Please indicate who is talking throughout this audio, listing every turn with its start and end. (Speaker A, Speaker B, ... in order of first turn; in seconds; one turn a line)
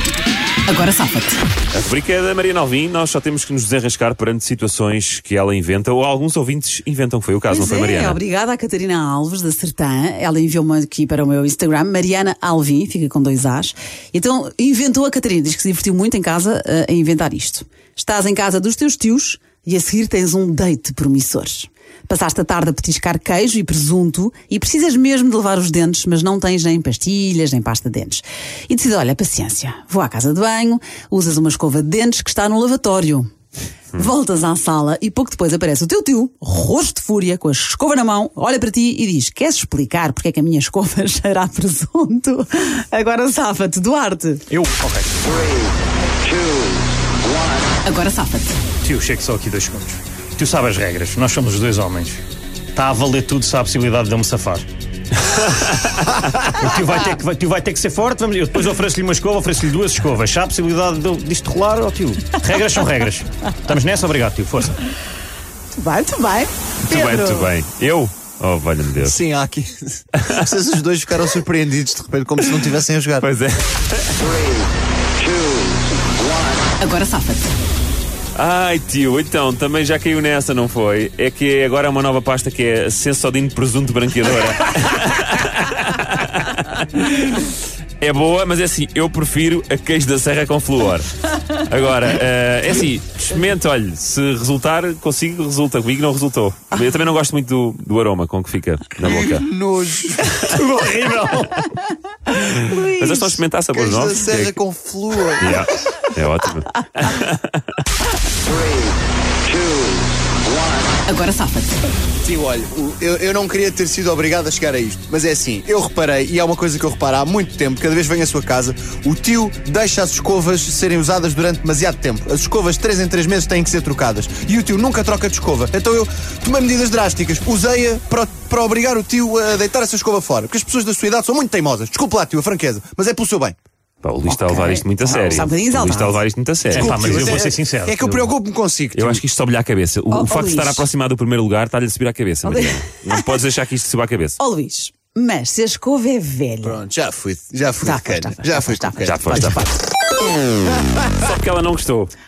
Speaker A: 0.7-1.4
Speaker B: 1.7-8.2
Speaker A: 7.5-33.3
Speaker A: 34.0-44.5
Speaker C: 44.5-45.4
Speaker A: 47.8-48.6
Speaker C: 48.8-52.2
Speaker C: 52.7-54.7
Speaker B: 55.6-56.1
Speaker C: 56.4-64.8
Speaker A: 65.7-67.5
Speaker B: 66.8-69.2
Speaker D: 69.0-73.3
Speaker B: 70.2-70.5
Speaker B: 73.2-74.3
Speaker A: 76.8-77.5
Speaker B: 78.3-99.5
Speaker D: 99.0-100.4
Speaker C: 100.4-101.8
Speaker B: 102.3-104.6
Speaker A: 102.5-103.4
Speaker D: 103.7-105.6
Speaker B: 105.4-107.8
Speaker A: 111.1-111.8
Speaker D: 112.2-133.6
Speaker B: 134.0-137.2
Speaker A: 134.3-136.2
Speaker C: 136.7-138.3
Speaker D: 136.7-139.2
Speaker B: 138.9-144.4
Speaker A: 140.1-140.9
Speaker A: 142.4-143.2
Speaker A: 144.4-146.8
Speaker D: 146.6-149.4
Speaker A: 147.8-149.8
Speaker B: 149.1-149.6
Speaker B: 151.0-152.1